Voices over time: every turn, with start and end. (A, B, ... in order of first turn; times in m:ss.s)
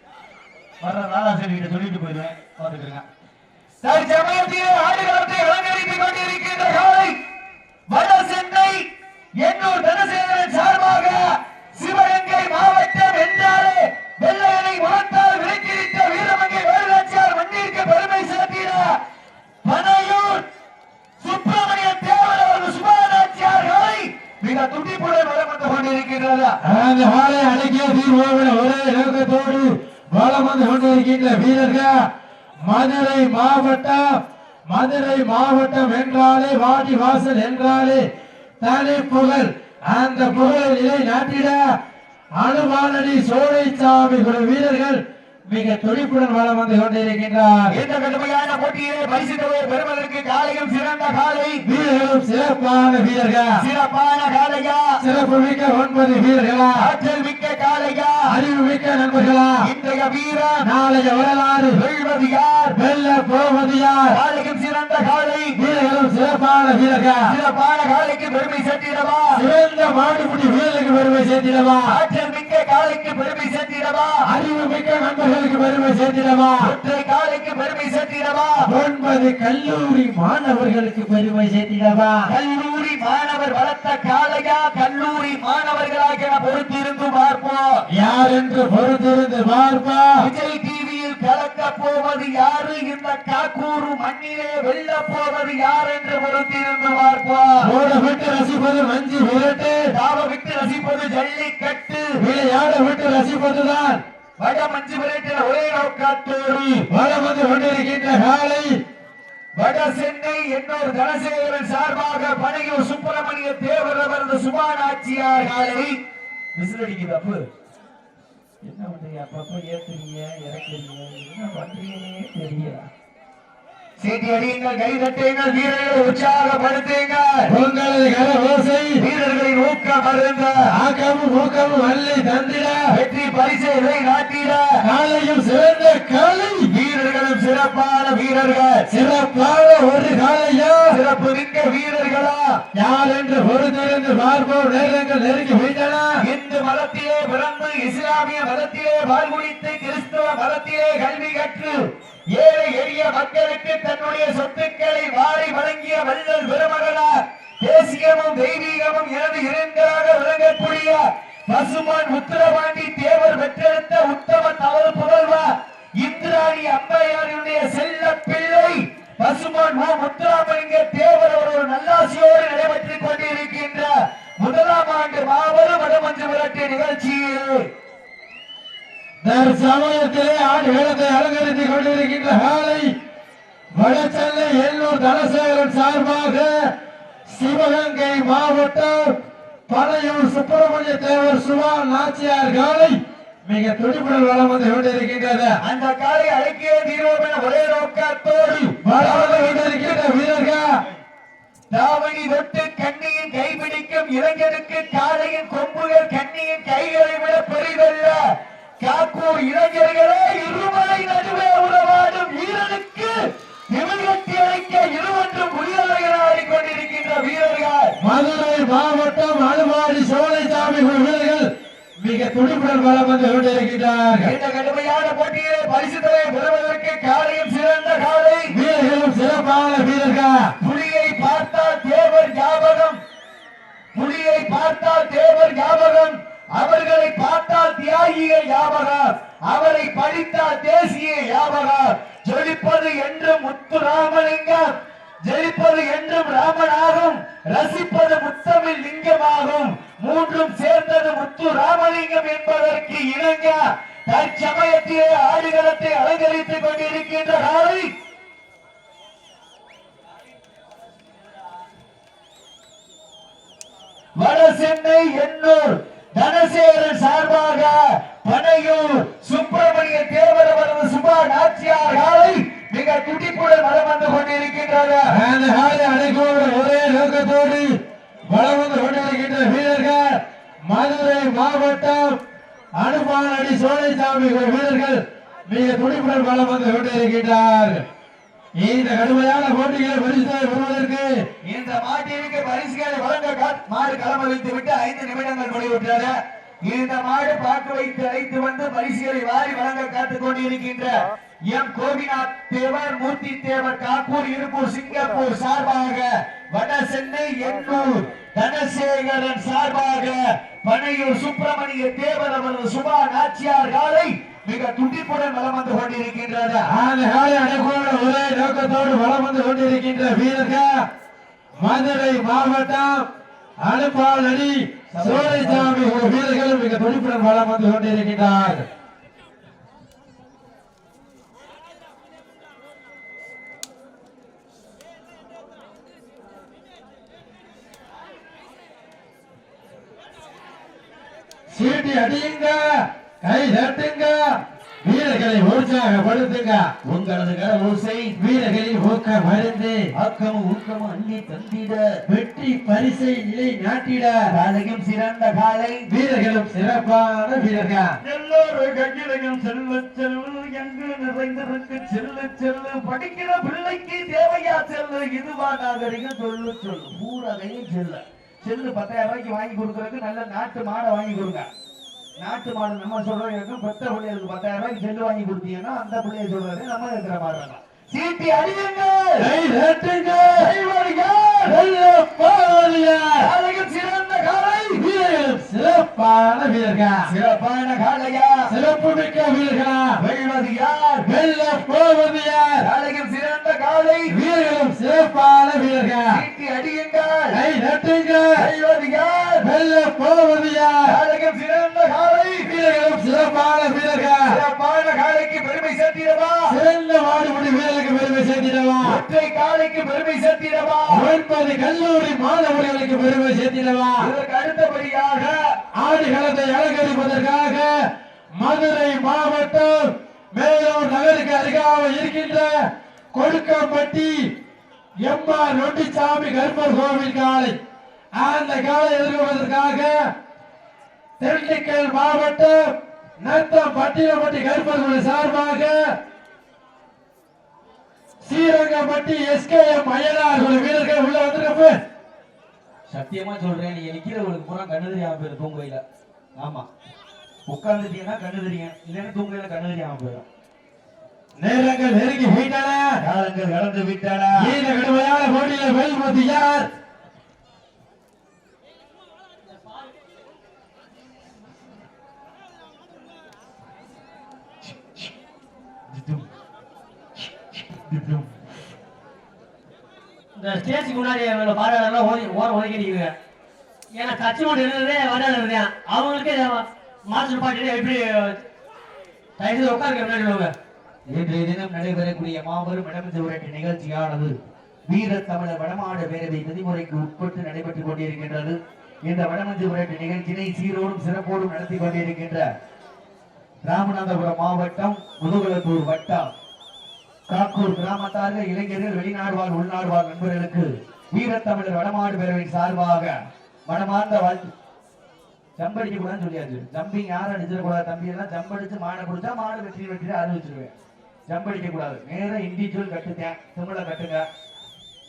0:00.8-0:03.0 A
0:03.8-0:07.2 A
0:07.9-0:08.9 A
0:09.4-0:18.9 A
0:19.6-0:20.4 A
0:21.2-0:26.6 A
0:26.6-0:32.0 B
0:32.7-0:34.0 B
0:34.7-0:38.0 B
0:38.6-0:41.6 B
0:42.4-0:47.8 B
0:47.7-0:51.6 A
0:51.6-0:53.6 B
0:53.6-0:55.0 A
0:55.0-0:56.9 B
0:56.7-0:58.3 A
0:58.3-0:59.6 B
0:59.6-1:00.7 A
1:00.6-1:01.8 B
1:01.7-1:02.8 A
1:02.8-1:04.2 B
1:04.1-1:05.6 A
1:05.6-1:07.3 B
1:07.3-1:09.4 A
1:09.3-1:12.0 B
1:11.9-1:14.2 A
1:14.3-1:16.7 B
1:16.6-1:18.7 A
1:18.6-1:22.3 B
1:22.3-1:27.9 A
1:27.9-1:30.2 B
1:30.2-1:37.7 A
1:37.6-1:39.8 B
1:39.9-1:42.2 A
1:42.2-1:44.0 B
1:44.4-1:46.9 A
1:46.9-1:48.7 B
1:49.6-1:55.9 A
1:56.6-1:57.4 A
1:58.6-2:02.9 A
2:04.0-2:07.5 A
2:07.5-2:09.0 B
2:09.0-2:10.7 A
2:10.7-2:12.8 B
2:12.9-2:14.8 A
2:14.8-2:16.7 B
2:16.7-2:18.9 A
2:18.9-2:20.9 B
2:20.9-2:22.6 A
2:22.7-2:26.2 B
2:26.2-2:31.8 A
2:32.3-2:57.7 A
2:59.2-3:02.9 B
3:03.8-3:06.5 B
3:07.3-3:09.1 B
3:09.7-3:15.6 B
3:15.6-3:19.9 A
3:18.8-3:20.7 B
3:21.7-3:28.2 A
3:28.8-3:33.2 A
3:33.7-3:38.0 A
3:38.0-3:41.5 B
3:42.0-3:44.3 B
3:44.2-3:48.5 A
3:48.5-3:50.5 B
3:50.6-3:53.0 A
3:53.9-4:17.9 A
4:24.2-4:35.1 A
4:35.1-4:37.7 B
4:38.3-4:42.2 B
4:42.8-4:47.8 B
4:48.6-4:51.1 B
4:51.4-4:56.1 A
4:56.6-5:16.7 A
5:16.7-5:20.8 B
5:21.6-5:23.1 B
5:23.6-5:28.6 B
5:24.9-5:25.8 A
5:41.5-5:46.7 B
5:46.8-5:48.2 A
5:48.2-5:49.9 B
5:50.0-5:51.8 A
5:52.1-5:54.2 B
5:54.3-5:55.9 A
5:55.9-5:57.9 B
5:58.0-6:11.4 A
6:12.2-6:19.3 A
6:19.2-6:20.5 B
6:20.4-6:21.6 A
6:21.4-6:23.3 B
6:23.2-6:24.8 A
6:24.8-6:27.1 B
6:27.0-6:28.5 A
6:28.5-6:30.0 B
6:30.0-6:31.1 A
6:31.1-6:32.6 B
6:32.6-6:34.1 A
6:34.1-6:36.2 B
6:36.1-6:37.4 A
6:37.3-6:38.4 B
6:38.4-6:39.5 A
6:39.4-6:40.9 B
6:40.9-6:42.5 A
6:42.4-6:44.3 B
6:44.3-6:46.6 A
6:46.5-6:49.0 B
6:48.8-6:51.1 A
6:50.9-6:54.1 B
6:54.0-6:55.4 A
6:55.8-6:57.7 B
6:58.4-7:02.5 B
7:03.1-7:04.1 B
7:05.0-7:07.6 B
7:08.2-7:10.0 B
7:11.2-7:15.8 B
7:18.2-7:21.8 B
7:22.9-7:25.8 A
7:26.4-7:26.7 A
7:27.5-7:30.2 A
7:31.4-7:33.0 B
7:33.0-7:34.5 A
7:34.4-7:36.7 B
7:44.6-7:45.1 A
7:45.9-7:46.3 A
7:47.5-7:48.4 A
7:50.4-7:53.1 C
7:53.9-7:58.4 C
7:59.4-8:00.5 C
8:01.1-8:04.3 A
8:04.9-8:12.5 A
8:13.6-8:16.3 A
8:17.3-8:23.2 A
8:23.7-8:24.5 A
8:25.6-8:30.7 A
8:31.3-8:34.2 A